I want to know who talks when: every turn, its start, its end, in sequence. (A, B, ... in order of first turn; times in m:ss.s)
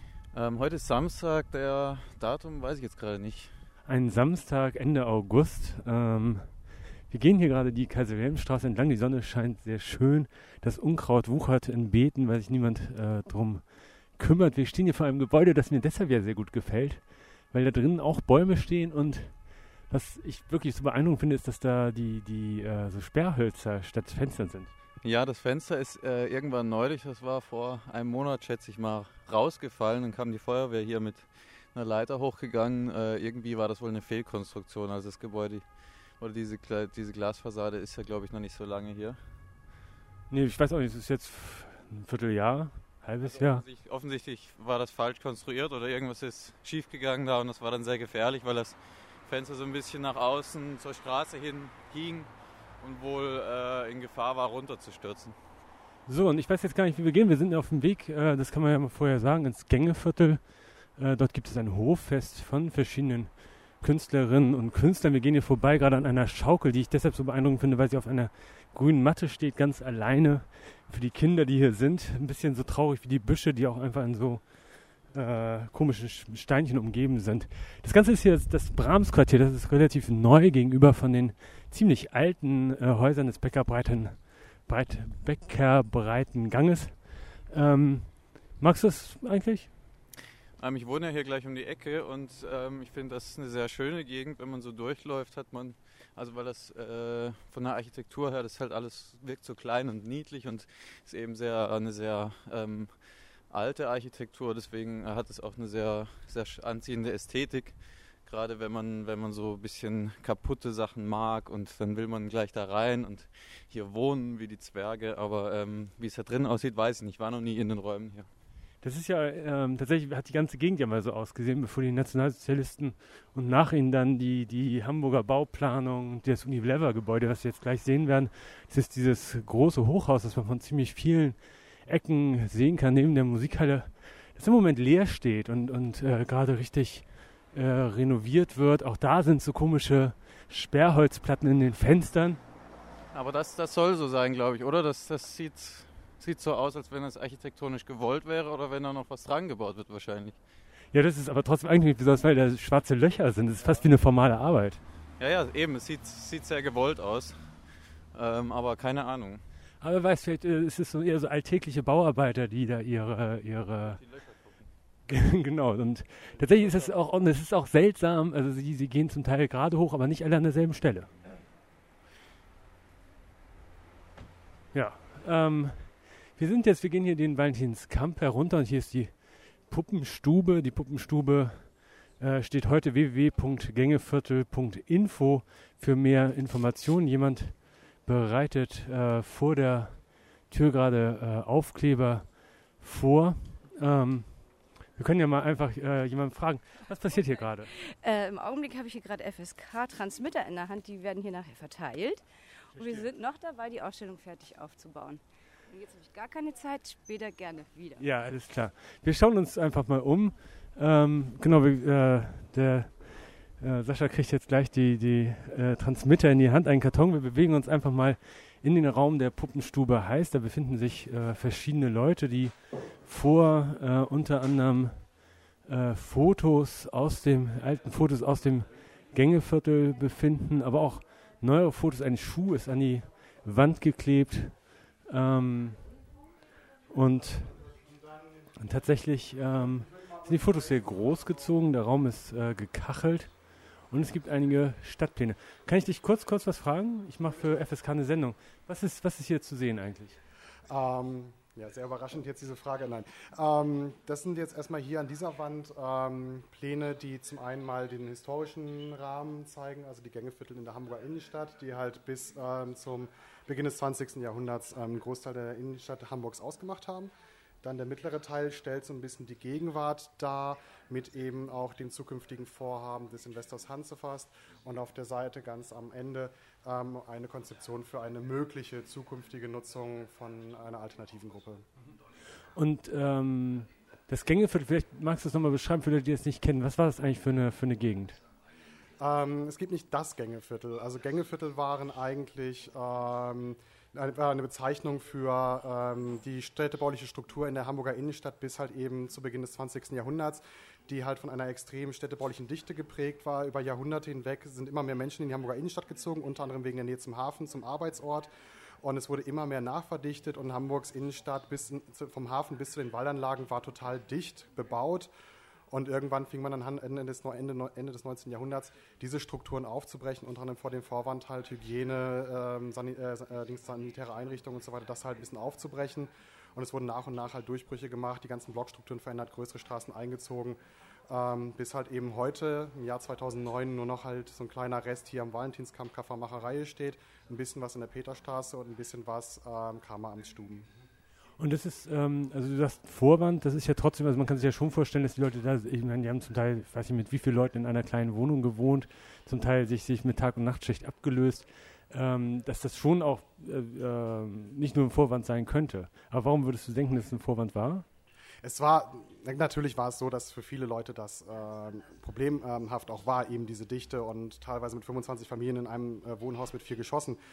0:00.3-0:03.7 A
0:03.8-0:24.7 B
0:25.0-0:39.2 A
0:40.3-0:43.6 B
0:43.2-0:55.4 A
0:56.1-1:29.7 B
1:30.6-1:58.3 A
1:58.8-2:22.4 B
2:23.1-2:30.4 A
2:30.9-2:34.8 B
2:33.6-2:33.9 A
2:35.2-2:39.4 A
2:39.8-2:44.0 B
2:43.8-2:44.7 A
2:45.1-2:51.2 B
2:46.3-2:47.0 A
2:54.7-3:17.7 B
3:17.1-3:28.0 C
3:22.8-3:23.1 B
3:28.0-3:56.0 B
3:56.9-3:57.6 B
3:58.6-4:10.2 B
4:10.7-4:27.1 D
4:27.6-4:41.7 D
4:42.5-4:48.2 B
4:49.0-5:08.3 D
5:08.8-5:15.1 D
5:15.7-5:40.7 D
5:41.4-5:57.9 B
5:58.4-6:07.2 D